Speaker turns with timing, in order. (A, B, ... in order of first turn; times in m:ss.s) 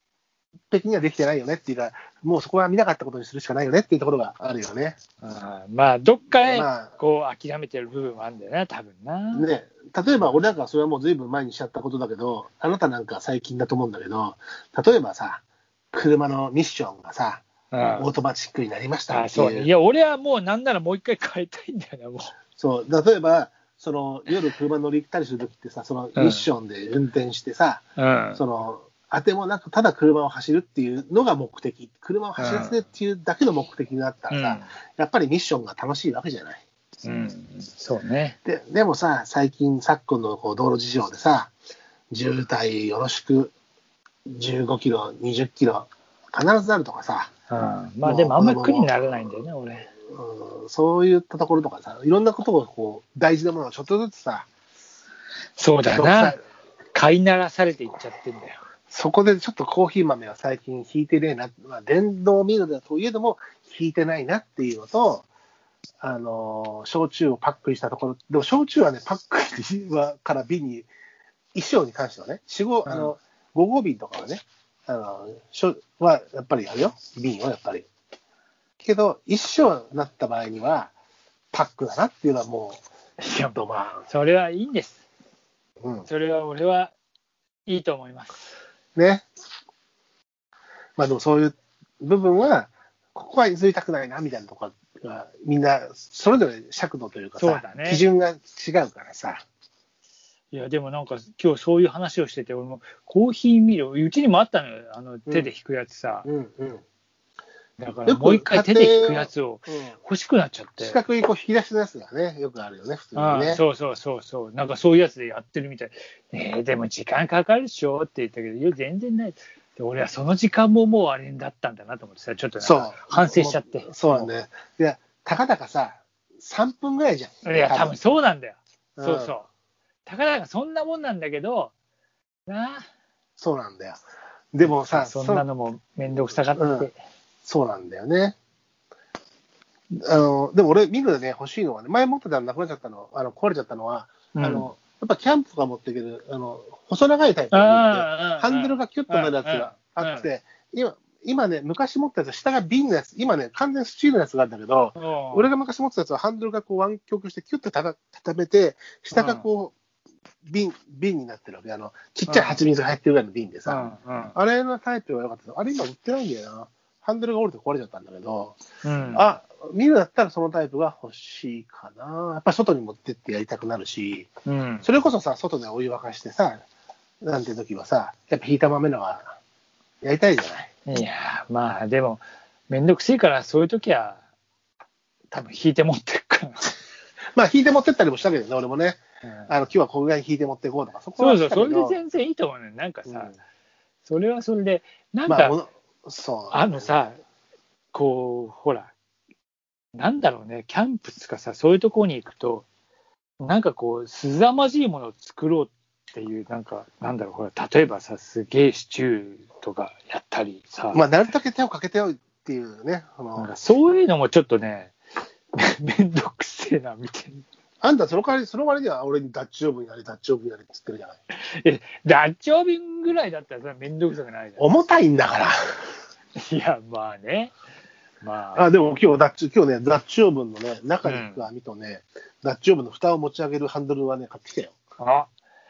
0:00.7-0:05.0 A
0:05.2-0:09.5 B
0:06.4-0:07.0 A
0:09.3-0:17.4 A
0:17.7-0:18.1 B
0:18.0-0:19.7 A
0:19.1-0:22.3 B
0:22.6-0:27.8 A
0:26.2-0:26.5 B
0:28.0-0:28.4 B
0:28.4-0:36.6 A
0:32.4-0:32.8 B
0:34.3-0:34.7 B
0:37.0-0:38.4 B
0:38.4-0:41.5 A
0:42.1-0:43.5 A
0:44.3-0:47.3 A
0:47.5-0:49.9 B
0:48.0-0:49.1 A
0:50.1-0:54.5 A
0:55.6-0:56.4 B
0:55.9-0:56.4 A
0:56.9-0:58.6 B
0:58.9-1:05.3 A
1:06.0-1:10.9 A
1:11.5-1:17.9 A
1:12.9-1:13.1 B
1:18.8-1:20.9 A
1:21.5-1:22.8 A
1:23.2-1:25.0 B
1:23.5-1:24.1 A
1:25.8-1:26.1 A
1:26.1-1:26.9 B
1:27.7-1:28.5 B
1:29.0-1:29.3 A
1:31.0-1:39.4 A
1:37.4-1:38.0 B
1:40.5-1:46.3 B
1:46.2-1:46.8 A
1:47.8-1:51.0 B
1:48.1-1:50.0 A
1:50.8-1:53.6 A
1:53.2-2:04.3 B
2:02.6-2:07.9 A
2:07.4-2:09.5 B
2:09.0-2:09.4 A
2:10.1-2:11.7 B
2:12.5-2:12.8 B
2:13.4-2:14.0 A
2:14.5-2:15.5 A
2:14.6-2:17.0 B
2:16.5-2:16.9 A
2:17.4-2:18.4 A
2:19.9-2:39.8 A
2:24.3-2:24.7 B
2:27.5-2:30.3 B
2:35.0-2:35.5 B
2:39.1-2:39.4 B
2:40.5-2:48.6 A
2:42.3-2:42.6 B
2:43.7-2:44.4 B
2:48.8-2:49.2 B
2:49.1-2:54.3 A
2:54.5-2:54.9 B
2:54.8-2:56.6 A
2:57.2-2:59.3 A
3:00.0-3:00.8 A
3:00.9-3:04.2 B
3:05.3-3:06.8 B
3:07.4-3:12.0 A
3:09.2-3:09.5 B
3:11.2-3:13.4 B
3:13.1-3:13.3 A
3:14.1-3:15.6 B
3:15.3-3:16.9 A
3:16.5-3:17.2 B
3:17.9-3:18.9 B
3:20.0-3:22.7 B
3:23.4-3:31.0 B
3:30.9-3:33.5 A
3:33.4-3:34.9 B
3:35.6-3:37.4 B
3:37.8-3:41.2 A
3:41.3-3:44.7 B
3:44.6-3:45.8 A
3:46.4-3:47.5 B
3:48.2-3:48.7 B
3:48.6-3:54.8 A
3:51.0-3:51.5 B
3:55.0-3:55.3 B